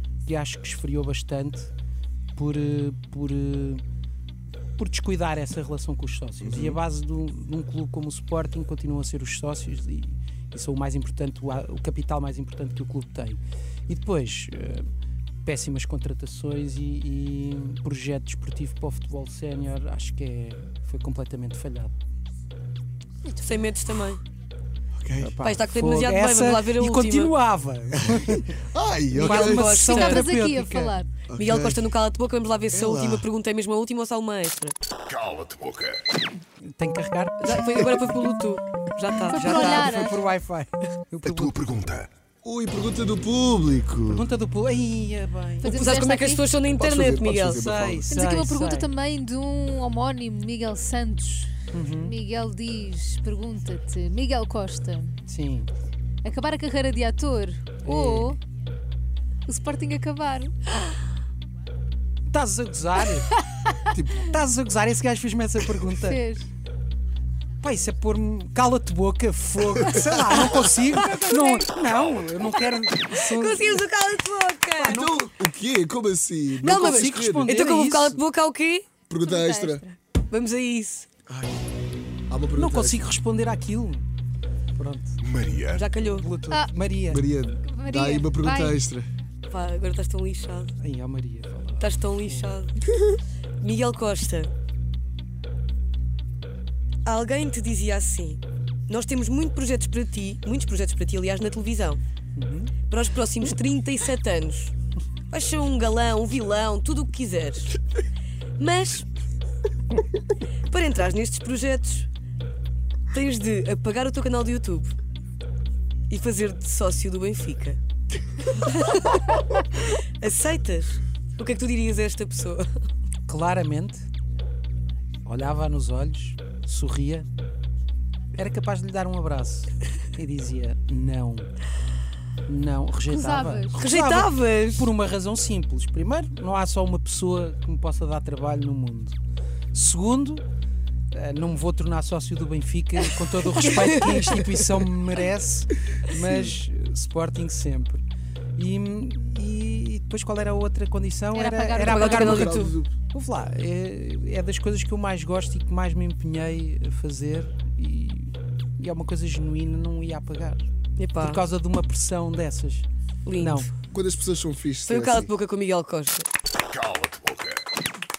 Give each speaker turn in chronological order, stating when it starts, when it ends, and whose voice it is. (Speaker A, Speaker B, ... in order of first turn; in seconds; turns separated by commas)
Speaker A: 0.2-1.7, Speaker A: 2.4-3.8, Speaker A: 4.8-14.9, Speaker B: 6.4-6.8, Speaker A: 15.4-21.9, Speaker C: 23.3-24.2, Speaker B: 25.0-25.4, Speaker A: 25.2-28.6, Speaker C: 25.4-27.3, Speaker B: 27.9-29.7, Speaker C: 29.1-30.3, Speaker A: 29.1-31.0, Speaker D: 29.8-31.1, Speaker B: 31.3-31.9, Speaker C: 31.4-34.8, Speaker B: 32.7-33.3, Speaker E: 35.1-36.0, Speaker A: 36.6-38.0, Speaker C: 37.4-40.1, Speaker D: 39.3-40.2, Speaker A: 39.3-41.7, Speaker E: 41.2-42.1, Speaker B: 42.4-44.2, Speaker A: 44.1-46.0, Speaker C: 45.6-47.6, Speaker D: 45.6-46.4, Speaker B: 46.8-48.1, Speaker A: 47.5-48.9, Speaker D: 48.1-55.2, Speaker A: 51.7-52.2, Speaker A: 55.3-55.7, Speaker D: 56.2-58.4, Speaker A: 57.8-58.4, Speaker D: 59.5-60.9, Speaker A: 62.3-63.4, Speaker B: 63.9-64.3, Speaker A: 64.1-66.2, Speaker D: 66.0-66.5, Speaker A: 67.6-73.8, Speaker B: 69.8-70.4, Speaker C: 70.6-71.6, Speaker D: 70.9-71.5, Speaker E: 71.9-72.5, Speaker C: 73.1-75.2, Speaker B: 74.8-77.5, Speaker A: 76.6-78.2, Speaker C: 76.6-78.9, Speaker B: 79.1-79.8, Speaker D: 79.2-80.0, Speaker C: 80.3-81.1, Speaker B: 81.3-81.6, Speaker B: 82.3-83.1, Speaker A: 82.6-84.0, Speaker A: 84.8-85.2, Speaker E: 85.2-85.9, Speaker C: 85.7-86.3, Speaker A: 86.1-87.3, Speaker B: 87.1-89.1, Speaker D: 87.6-88.8, Speaker C: 89.5-90.8, Speaker A: 90.8-92.5, Speaker C: 91.8-92.8, Speaker C: 93.6-94.5, Speaker C: 97.1-102.0, Speaker A: 102.4-102.7, Speaker C: 102.9-104.7, Speaker C: 105.3-107.8, Speaker C: 108.6-109.1, Speaker C: 110.7-112.1, Speaker C: 113.1-115.0, Speaker C: 116.1-117.8, Speaker C: 118.5-122.7, Speaker A: 123.3-124.0, Speaker A: 125.2-127.3, Speaker A: 128.4-131.5, Speaker A: 132.5-139.2, Speaker D: 133.1-133.8, Speaker C: 133.8-134.9, Speaker A: 139.7-140.4, Speaker A: 141.1-148.0, Speaker C: 143.4-144.6, Speaker A: 148.6-160.6, Speaker D: 151.3-152.3, Speaker C: 151.8-152.8, Speaker B: 152.1-152.9, Speaker C: 161.0-161.4, Speaker A: 161.2-162.9, Speaker C: 163.3-163.7, Speaker A: 163.4-163.7, Speaker B: 163.9-165.3, Speaker C: 164.9-166.3, Speaker E: 166.7-167.6